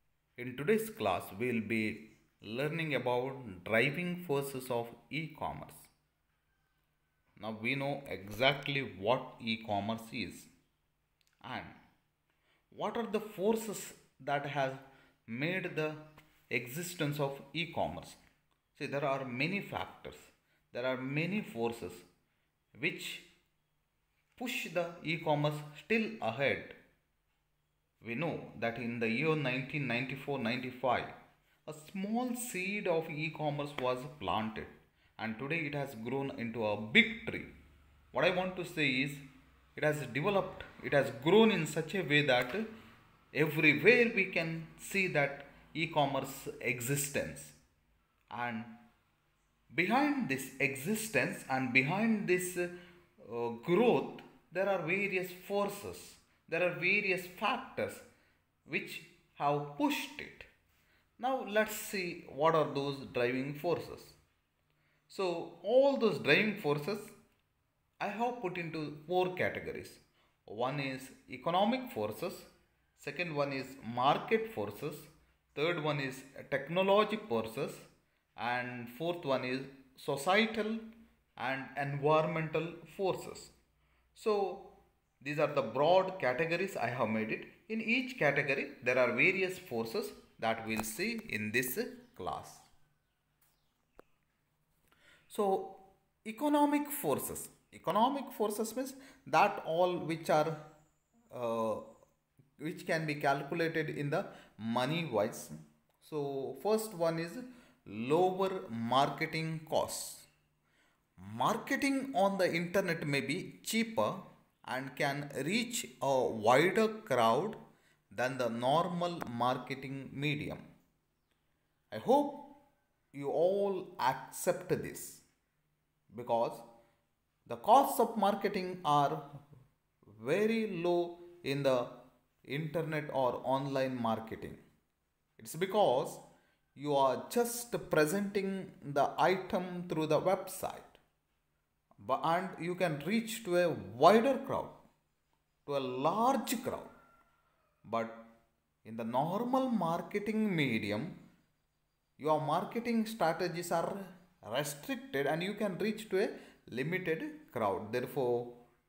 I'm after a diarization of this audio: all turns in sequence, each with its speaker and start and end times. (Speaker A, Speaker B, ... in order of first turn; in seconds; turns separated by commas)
Speaker A: 0.4-5.9, Speaker A: 7.4-10.5, Speaker A: 11.4-11.8, Speaker A: 12.7-18.2, Speaker A: 18.8-22.1, Speaker A: 22.8-23.3, Speaker A: 24.4-26.8, Speaker A: 28.0-31.1, Speaker A: 31.7-37.5, Speaker A: 38.1-39.2, Speaker A: 39.8-42.7, Speaker A: 43.3-47.6, Speaker A: 48.3-48.8, Speaker A: 49.7-58.0, Speaker A: 58.7-60.5, Speaker A: 61.2-64.2, Speaker A: 65.1-67.2, Speaker A: 68.0-80.8, Speaker A: 81.4-83.5, Speaker A: 84.2-92.7, Speaker A: 95.3-100.6, Speaker A: 101.3-101.8, Speaker A: 102.6-110.3, Speaker A: 111.2-117.6, Speaker A: 118.1-120.6, Speaker A: 121.9-122.6, Speaker A: 123.1-125.2, Speaker A: 126.1-126.6, Speaker A: 127.5-129.2, Speaker A: 130.1-131.9, Speaker A: 132.5-134.6, Speaker A: 135.4-136.2, Speaker A: 136.8-141.0, Speaker A: 142.0-144.8, Speaker A: 145.7-146.9, Speaker A: 147.8-148.2, Speaker A: 148.8-151.1, Speaker A: 152.2-158.5